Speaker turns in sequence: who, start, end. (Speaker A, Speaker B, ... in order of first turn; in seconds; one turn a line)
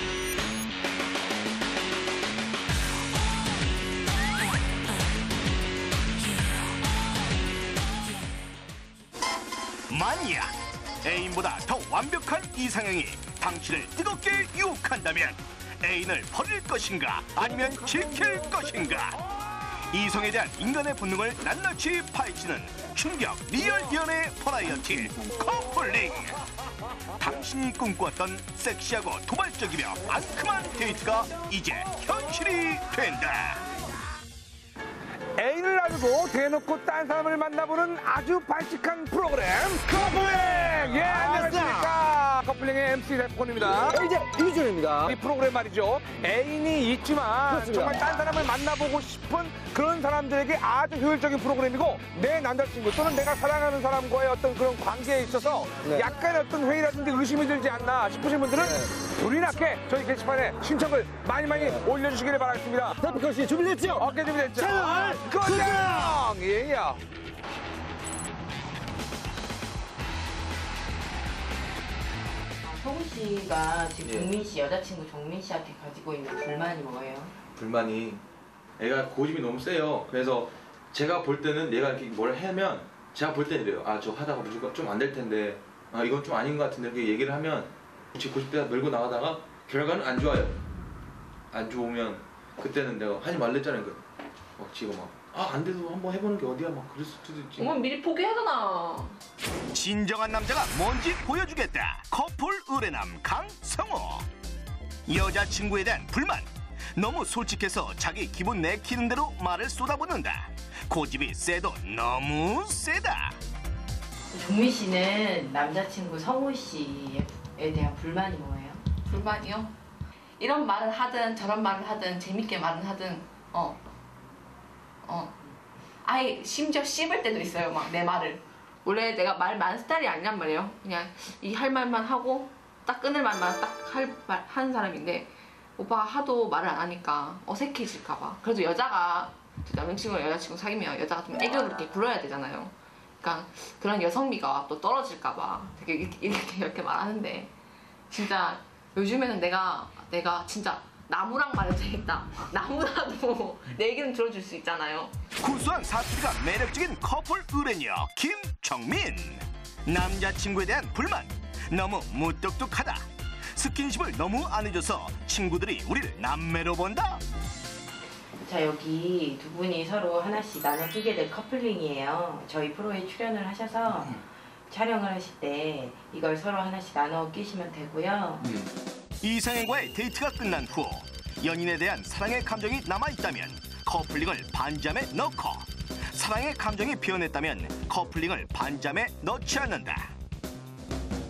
Speaker A: 9.9-19.2
Speaker B: 17.4-18.9
Speaker A: 19.9-26.4
Speaker A: 27.2-33.7
Speaker C: 35.4-44.0
Speaker B: 39.9-41.9
Speaker B: 43.7-45.2
Speaker C: 45.0-63.1
Speaker B: 47.5-48.4
Speaker B: 55.8-56.1
Speaker B: 58.6-59.0
Speaker B: 61.5-61.8
Speaker B: 63.0-66.2
Speaker C: 63.9-67.0
Speaker D: 72.6-77.3
Speaker E: 74.0-74.3
Speaker E: 77.6-78.2
Speaker E: 78.8-90.6
Speaker E: 91.5-94.0
Speaker E: 94.6-97.9
Speaker F: 97.6-99.2
Speaker A: 99.7-104.3
Speaker A: 105.1-113.4
Speaker D: 114.3-118.8
Speaker F: 119.0-119.7
Speaker F: 120.4-123.8
Speaker F: 125.0-125.4
Speaker F: 126.0-147.5
Speaker F: 148.1-155.2
Speaker A: 155.4-167.2
Speaker D: 168.4-178.5
Speaker E: 178.4-178.7
Speaker A: 179.2-190.1